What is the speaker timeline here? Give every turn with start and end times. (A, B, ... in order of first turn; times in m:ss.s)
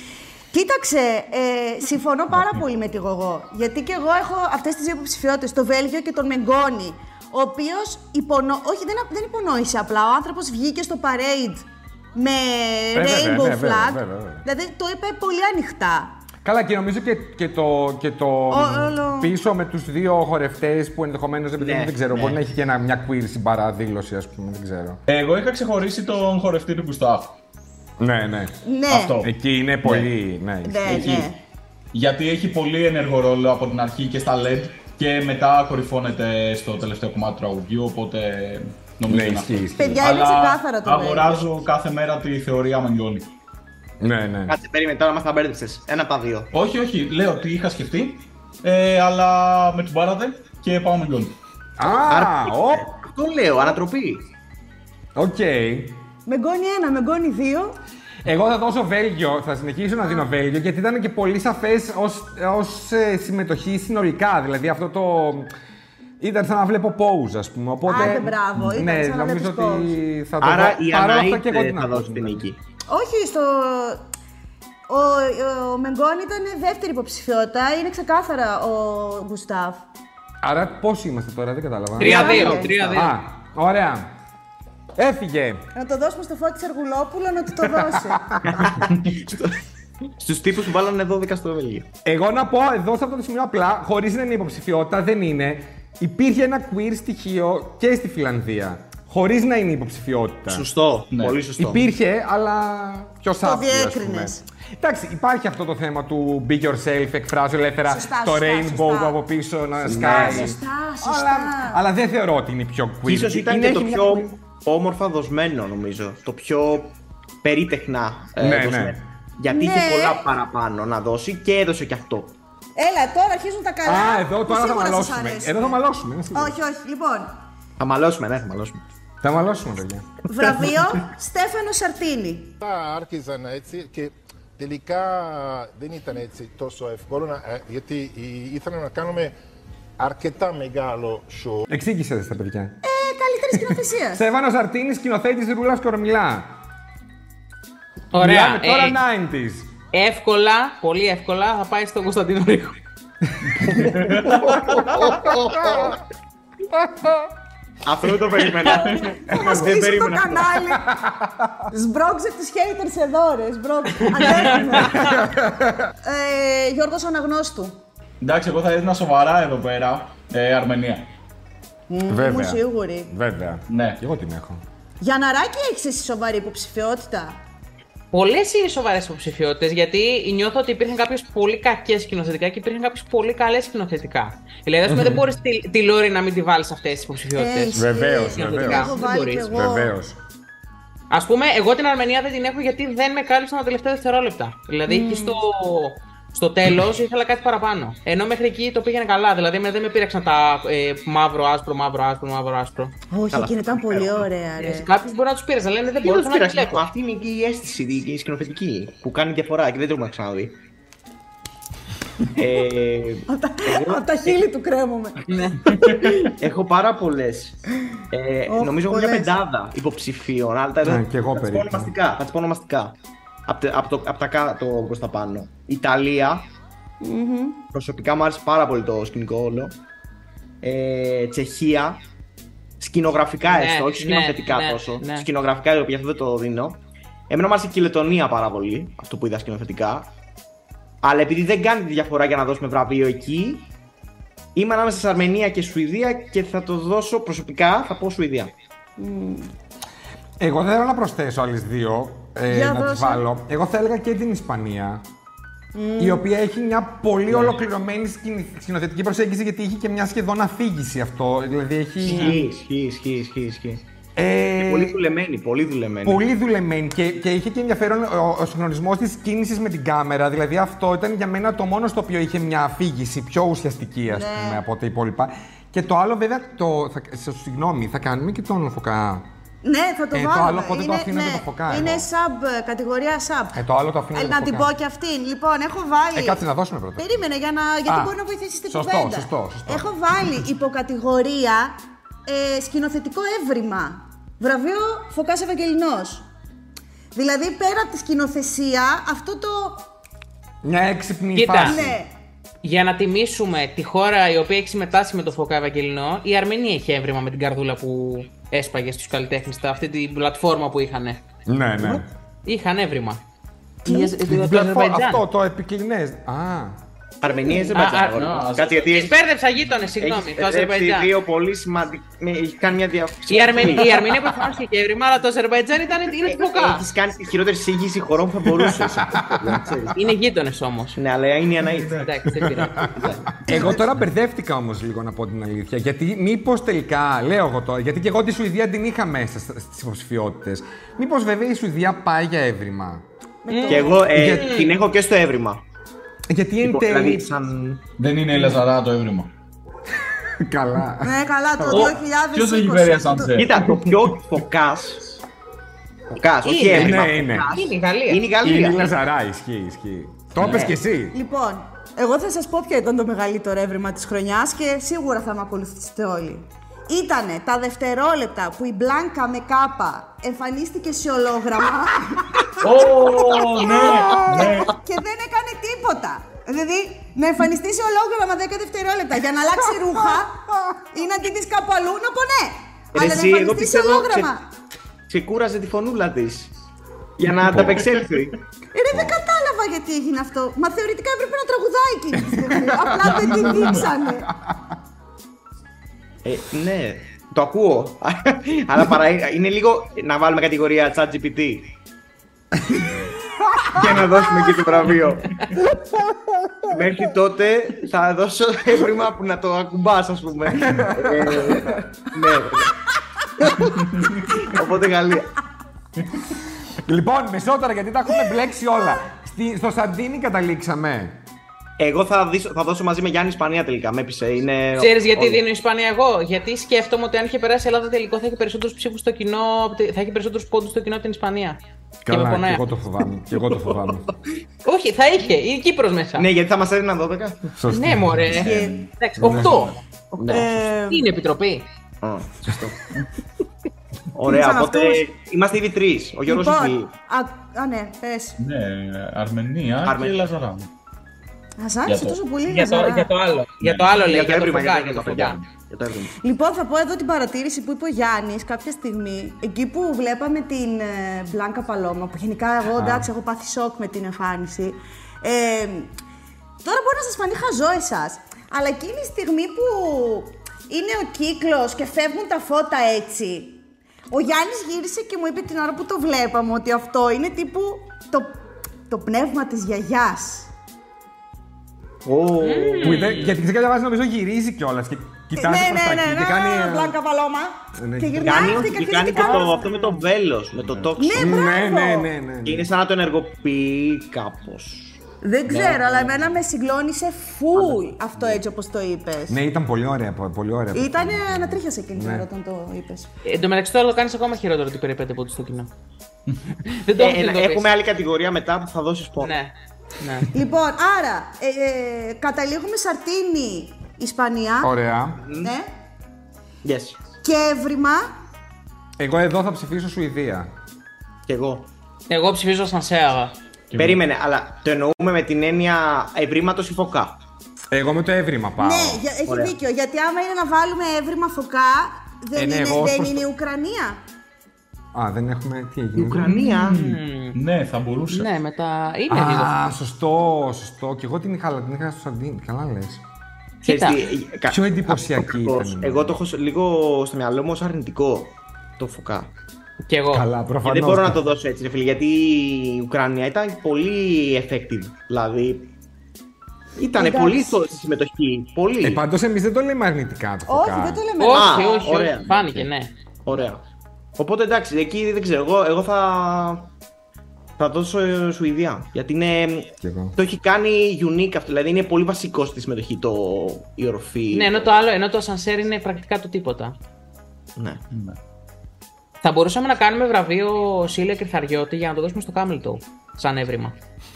0:00.5-0:16.1 A
0:13.0-0:14.4 B
0:16.4-0:25.0 B
0:18.5-0:19.3 A
0:21.6-0:22.4 C
0:25.1-0:27.4 D
0:28.0-0:28.6 B
0:28.6-0:29.2 A
0:28.9-0:29.3 D
0:29.2-0:31.3 B
0:29.8-0:30.1 D
0:30.6-0:31.4 A
0:30.9-0:31.2 D
0:31.9-0:43.3 D
0:39.1-0:40.1 B
0:39.8-0:41.4 A
0:44.0-0:44.6 B
0:44.5-0:46.5 C
0:46.5-0:51.4 D
0:51.8-0:52.9 B
0:52.1-0:54.3 C
0:55.2-0:56.0 B
0:56.3-0:57.8 A
0:58.2-1:05.5 B
1:06.2-1:12.5 B
1:07.9-1:10.0 A
1:10.4-1:12.6 C
1:12.9-1:14.0 A
1:14.9-1:19.8 A
1:20.4-1:24.1 B
1:22.0-1:23.2 E
1:22.0-1:22.8 A
1:22.0-1:23.0 C
1:25.0-1:25.6 B
1:25.8-1:28.2 A
1:27.6-1:28.7 B
1:28.4-1:29.6 C
1:30.2-1:31.9 C
1:32.0-1:40.7 B
1:40.5-1:41.9 C
1:41.1-1:41.4 D
1:41.6-1:54.3 B
1:43.4-1:44.4 A
1:47.8-1:49.2 A
1:49.9-1:50.6 C
1:50.0-1:51.8 A
1:53.1-2:02.3 C
1:58.4-1:59.0 B
1:59.5-2:00.2 A
2:02.8-2:05.8 A
2:03.8-2:06.6 B
2:06.3-2:07.3 A
2:07.8-2:08.8 C
2:09.2-2:10.1 B
2:10.3-2:12.6 A
2:10.5-2:10.7 C
2:12.6-2:19.3 F
2:20.0-2:21.7 F
2:21.7-2:22.8 B
2:22.8-2:24.2 A
2:23.6-2:26.6 B
2:28.1-2:29.0 E
2:28.2-2:29.7 B
2:29.9-2:32.8 E
2:33.6-2:34.6 D
2:33.7-2:36.0 C
2:37.8-2:40.5 C
2:39.2-2:40.9 A
2:40.8-2:41.7 B
2:41.7-2:45.3 A
2:44.9-2:45.8 B
2:46.0-2:47.8 A
2:48.2-2:51.1 D
2:51.9-2:53.1 A
2:52.1-2:54.6 B
2:53.7-2:54.0 D
2:55.0-2:57.4 A
2:58.1-3:07.8 E
3:04.9-3:05.3 B
3:07.4-3:10.0 A
3:07.7-3:10.2 B
3:08.3-3:09.5 E
3:11.1-3:23.0 E
3:14.9-3:15.4 A
3:23.1-3:24.9 A
3:23.3-3:24.2 C
3:24.6-3:26.8 E
3:26.0-3:30.6 C
3:32.3-3:34.4 C
3:33.3-3:36.4 A
3:35.3-3:35.6 E
3:35.7-3:36.1 D
3:36.4-3:37.6 C
3:38.1-3:43.0 C
3:38.5-3:39.3 A
3:40.8-3:41.9 B
3:43.5-3:46.5 C
3:47.0-3:47.6 A
3:47.7-3:49.8 C
3:50.6-3:52.0 C
3:52.8-4:00.1 C
3:53.5-3:55.3 E
4:01.0-4:03.7 C
4:04.6-4:08.5 C
4:09.0-4:09.5 A
4:10.4-4:15.0 B
4:12.5-4:13.2 A
4:15.7-4:16.2 A
4:16.0-4:22.4 B
4:22.0-4:23.8 C
4:22.1-4:22.4 A
4:24.2-4:25.0 B
4:24.6-4:26.2 C
4:26.0-4:39.3 B
4:34.1-4:34.6 A
4:39.6-4:43.6 A
4:40.1-4:42.1 B
4:43.5-4:44.7 B
4:44.1-4:46.4 A
4:46.1-4:47.2 B
4:47.0-4:56.2 A
4:47.9-4:48.2 B
4:48.7-4:49.9 B
4:57.2-4:59.8 A
5:00.6-5:02.0 B
5:01.4-5:01.8 E
5:01.6-5:02.1 A
5:02.6-5:11.2 E
5:11.5-5:12.1 B
5:12.5-5:13.2 E
5:13.9-5:15.2 E
5:13.9-5:14.1 A
5:14.2-5:16.8 B
5:17.2-5:19.1 C
5:17.7-5:18.3 E
5:18.2-5:18.9 D
5:18.9-5:21.1 E
5:20.0-5:24.2 C
5:23.3-5:26.8 E
5:26.3-5:30.0 C
5:28.5-5:29.6 B
5:30.0-5:31.0 E
5:31.0-5:32.1 C
5:32.0-5:33.1 E
5:32.5-5:32.9 B
5:32.9-5:33.8 C
5:33.4-5:43.0 B
5:43.4-5:44.1 A
5:43.5-5:44.7 E
5:43.7-5:45.6 C
5:44.1-5:44.5 B
5:46.3-5:47.3 B
5:46.6-5:47.8 C
5:48.0-5:49.3 D
5:50.4-5:51.8 B
5:51.0-5:53.4 A
5:51.7-5:54.2 D
5:53.4-5:55.2 C
5:56.1-5:58.9 C
5:56.4-5:58.2 E
5:56.7-5:57.5 B
5:58.4-6:01.2 B
6:01.1-6:12.6 A
6:12.6-6:14.7 D
6:13.0-6:13.4 C
6:13.7-6:20.3 A
6:14.1-6:14.5 B
6:20.9-6:24.5 A
6:23.0-6:24.3 C
6:25.1-6:26.5 C
6:27.2-6:28.4 C
6:28.7-6:34.3 A
6:28.9-6:29.2 B
6:32.2-6:34.8 B
6:33.3-6:33.9 D
6:36.2-6:41.7 C
6:43.5-6:44.0 B
6:43.7-6:45.3 C
6:46.7-6:52.7 C
6:50.6-6:51.7 B
6:53.7-6:54.2 D
6:54.4-6:55.3 C
6:56.9-7:01.2 B
7:01.8-7:05.4 C
7:04.8-7:12.6 E
7:12.0-7:14.1 B
7:14.6-7:16.3 E
7:16.2-7:17.5 C
7:17.6-7:18.2 B
7:17.7-7:19.7 E
7:18.1-7:19.8 D
7:18.4-7:18.8 A
7:19.2-7:19.5 B
7:20.2-7:20.5 C
7:20.2-7:21.0 A
7:20.3-7:21.7 E
7:22.0-7:22.8 C
7:24.1-7:26.9 C
7:24.3-7:25.0 A
7:26.3-7:28.4 A
7:28.4-7:30.7 D
7:29.8-7:30.2 C
7:31.6-7:33.1 A
7:31.9-7:32.2 D
7:32.5-7:35.4 E
7:33.6-7:33.9 D
7:33.9-7:36.1 C
7:36.2-7:45.9 A
7:42.8-7:43.1 B
7:46.6-7:58.4 A
7:58.9-8:00.5 A
8:02.0-8:03.3 C
8:02.4-8:03.4 E
8:02.8-8:07.0 B
8:05.4-8:09.6 A
8:07.8-8:08.8 B
8:08.2-8:11.4 C
8:09.1-8:10.0 E
8:11.0-8:12.1 A
8:11.1-8:12.7 B
8:12.4-8:16.3 C
8:15.2-8:19.4 A
8:17.6-8:18.4 C
8:19.3-8:22.3 B
8:20.7-8:23.1 A
8:23.2-8:25.7 E
8:26.3-8:26.5 D
8:26.7-8:27.7 E
8:27.0-8:29.3 C
8:29.2-8:30.3 E
8:30.3-8:34.7 A
8:34.6-8:35.2 B
8:35.2-8:35.5 C
8:35.4-8:35.7 A
8:36.6-8:37.0 C
8:37.2-8:38.1 A
8:39.0-8:40.5 B
8:41.3-8:41.7 C
8:42.1-8:43.3 E
8:43.7-8:44.0 D
8:43.8-8:47.2 C
8:47.7-8:49.0 B
8:48.6-8:54.0 A
8:49.3-8:49.6 C
8:52.4-8:53.3 B
8:54.9-8:56.3 B
8:56.0-8:56.8 C
8:56.2-8:58.3 D
8:56.7-8:57.4 E
8:58.1-8:59.6 E
8:59.1-9:03.0 B
9:03.6-9:09.3 C
9:03.6-9:04.0 E
9:04.5-9:06.2 B
9:09.9-9:10.3 E
9:10.1-9:11.2 B
9:10.6-9:15.7 C
9:16.8-9:19.0 C
9:17.0-9:17.6 A
9:18.8-9:21.0 B
9:20.5-9:21.9 A
9:21.2-9:22.9 E
9:21.3-9:22.6 C
9:23.2-9:23.6 C
9:24.2-9:26.7 C
9:27.6-9:34.8 C
9:29.8-9:30.2 B
9:34.3-9:36.8 E
9:37.9-9:38.2 D
9:39.2-9:43.8 E